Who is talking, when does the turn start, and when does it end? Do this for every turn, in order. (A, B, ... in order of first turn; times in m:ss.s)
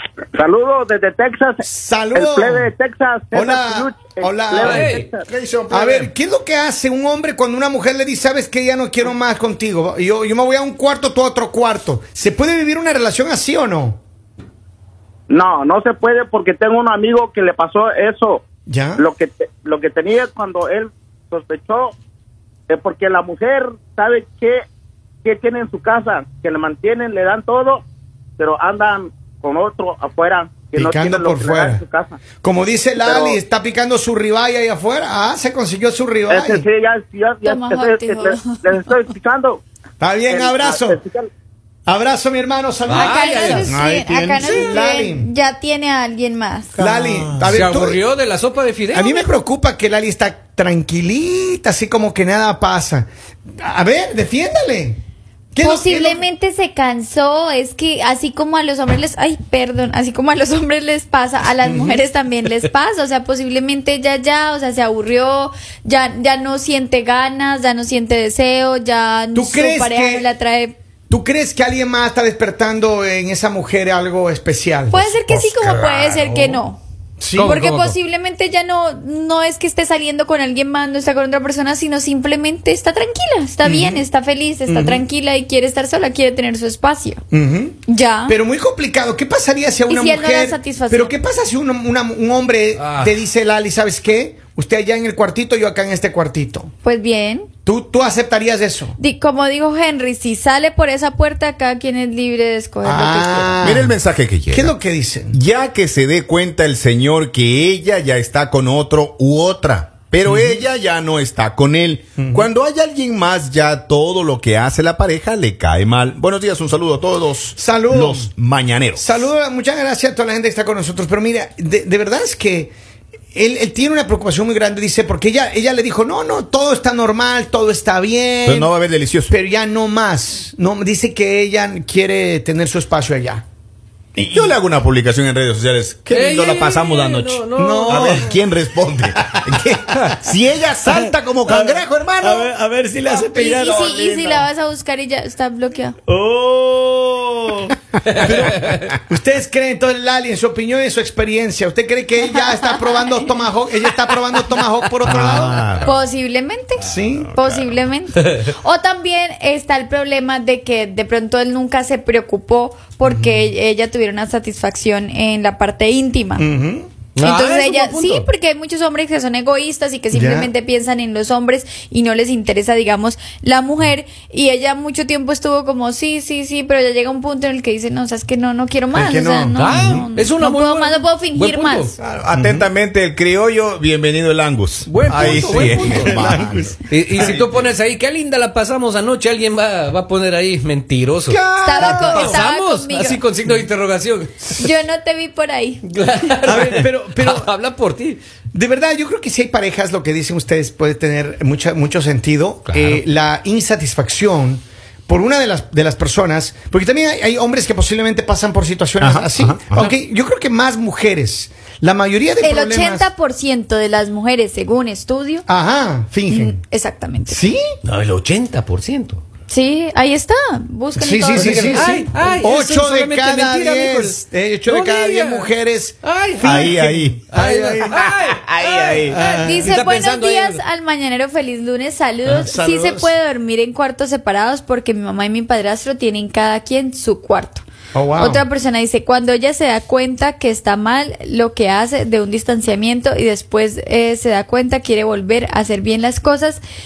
0:00.3-0:05.2 A
0:01.6-0:02.7 B
0:03.3-0:04.9 B
0:04.6-0:05.1 C
0:05.3-0:06.1 D
0:05.7-0:14.0 B
0:15.3-0:18.4 A
0:18.6-0:19.0 B
0:19.0-0:21.9 A
0:22.7-0:24.6 A
0:25.2-0:27.8 A
0:28.4-0:32.2 A
0:30.7-0:31.8 B
0:32.4-0:36.6 B
0:33.0-0:33.4 A
0:36.3-0:39.6 A
0:37.4-0:39.0 E
0:40.0-0:41.0 B
0:40.3-0:41.3 A
0:41.9-0:45.3 B
0:42.9-0:43.8 C
0:42.9-0:46.8 E
0:44.4-0:44.7 C
0:46.7-0:47.7 D
0:46.8-0:48.0 B
0:47.4-0:49.1 C
0:48.9-0:55.0 B
0:55.5-0:56.2 B
0:55.6-1:10.8 E
1:01.6-1:02.0 B
1:09.3-1:10.3 B
1:11.1-1:15.3 B
1:14.9-1:16.8 E
1:15.3-1:16.3 D
1:17.2-1:17.5 B
1:17.3-1:18.0 C
1:17.4-1:27.2 E
1:23.6-1:24.0 B
1:24.7-1:25.0 B
1:27.3-1:36.7 B
1:27.8-1:28.4 E
1:29.9-1:31.1 E
1:32.8-1:33.2 C
1:36.8-1:37.5 E
1:37.6-1:39.0 B
1:39.0-1:43.6 E
1:42.8-1:45.4 B
1:43.6-1:44.7 D
1:45.3-1:59.1 D
1:50.2-1:50.6 B
1:52.2-1:52.5 B
1:57.5-1:58.3 B
1:59.0-2:02.7 B
2:03.3-2:08.7 B
2:08.4-2:09.3 D
2:09.3-2:13.4 B
2:14.1-2:22.5 D
2:16.1-2:18.3 C
2:17.6-2:18.3 B
2:20.9-2:24.4 B
2:23.1-2:26.0 E
2:26.1-2:35.7 B
2:28.0-2:28.8 C
2:32.6-2:32.9 E
2:35.0-2:36.1 D
2:35.8-2:46.4 E
2:36.8-2:37.3 B
2:36.8-2:37.9 D
2:43.0-2:43.4 B
2:46.4-2:46.9 B
2:47.2-2:48.2 C
2:47.2-3:01.9 E
2:50.1-2:50.5 B
2:58.9-3:00.0 B
2:59.6-3:01.9 C
3:02.0-3:06.8 D
3:02.3-3:02.7 B
3:04.8-3:06.3 C
3:05.1-3:07.4 B
3:06.9-3:14.6 C
3:11.3-3:12.4 D
3:11.6-3:13.2 E
3:14.6-3:15.8 E
3:15.9-3:18.2 C
3:16.4-3:17.5 B
3:18.5-3:33.1 B
3:22.6-3:23.0 C
3:29.0-3:29.9 D
3:32.4-3:35.4 E
3:35.5-3:36.6 B
3:36.3-3:37.4 E
3:37.2-3:37.7 B
3:37.8-3:39.2 C
3:39.5-3:42.1 E
3:41.0-3:48.0 B
3:41.3-3:46.8 C
3:46.4-3:47.2 D
3:47.3-3:50.6 C
3:47.8-3:49.2 D
3:49.1-3:49.7 B
3:49.3-3:57.6 E
3:52.2-3:53.1 B
3:57.9-3:58.4 B
3:58.1-4:06.6 E